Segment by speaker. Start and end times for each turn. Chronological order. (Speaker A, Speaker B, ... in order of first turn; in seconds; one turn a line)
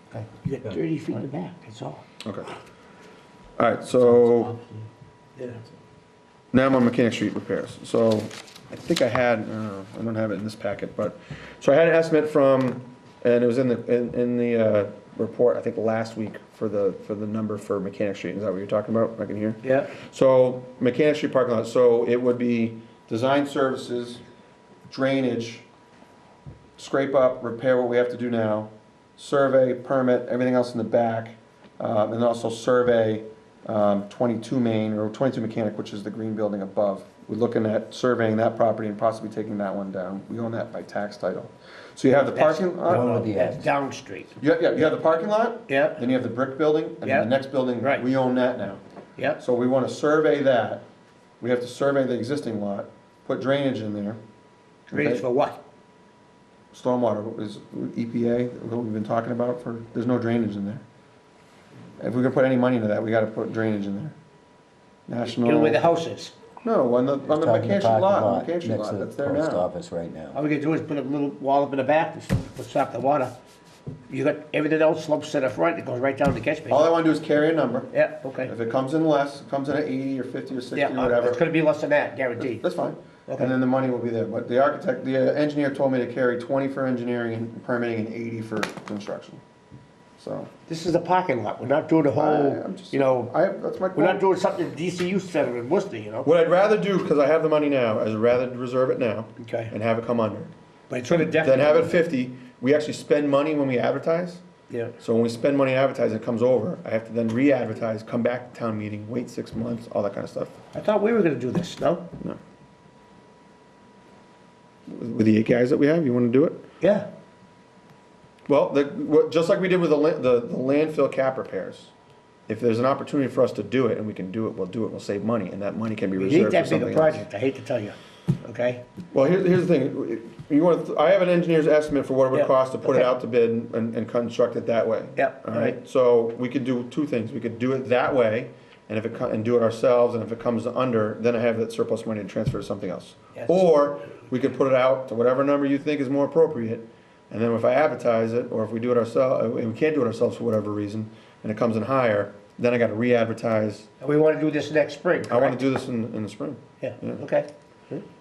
Speaker A: 0.4-2.0
Speaker B: 2.2-2.5
Speaker B: 3.6-4.6
Speaker B: 6.5-24.2
Speaker A: 19.6-19.9
Speaker B: 24.9-25.6
Speaker B: 26.8-43.2
Speaker A: 42.2-44.4
Speaker C: 42.9-43.7
Speaker B: 44.4-48.8
Speaker A: 45.7-46.0
Speaker A: 47.0-47.3
Speaker A: 47.8-48.0
Speaker B: 49.4-50.8
Speaker B: 51.4-54.2
Speaker A: 54.9-55.6
Speaker B: 54.9-55.2
Speaker B: 56.7-60.8
Speaker B: 62.0-64.2
Speaker B: 65.1-65.8
Speaker A: 65.2-66.3
Speaker B: 66.6-69.7
Speaker C: 67.2-70.4
Speaker A: 70.3-73.3
Speaker A: 74.1-76.9
Speaker B: 76.7-77.9
Speaker A: 77.9-78.5
Speaker B: 78.4-81.4
Speaker A: 80.7-83.5
Speaker B: 82.4-89.4
Speaker B: 90.2-90.5
Speaker A: 90.7-93.3
Speaker B: 92.2-94.2
Speaker A: 93.9-96.3
Speaker B: 96.2-100.5
Speaker A: 99.4-99.7
Speaker A: 100.9-101.9
Speaker B: 101.3-104.4
Speaker A: 104.7-104.9
Speaker B: 105.0-110.6
Speaker A: 110.7-112.1
Speaker B: 114.9-116.7
Speaker A: 116.8-117.1
Speaker B: 118.5-121.9
Speaker B: 122.5-127.2
Speaker A: 126.2-128.8
Speaker B: 129.1-153.9
Speaker A: 132.3-133.1
Speaker A: 135.2-135.8
Speaker A: 143.3-143.6
Speaker A: 154.0-155.6
Speaker B: 155.2-157.2
Speaker A: 156.8-158.0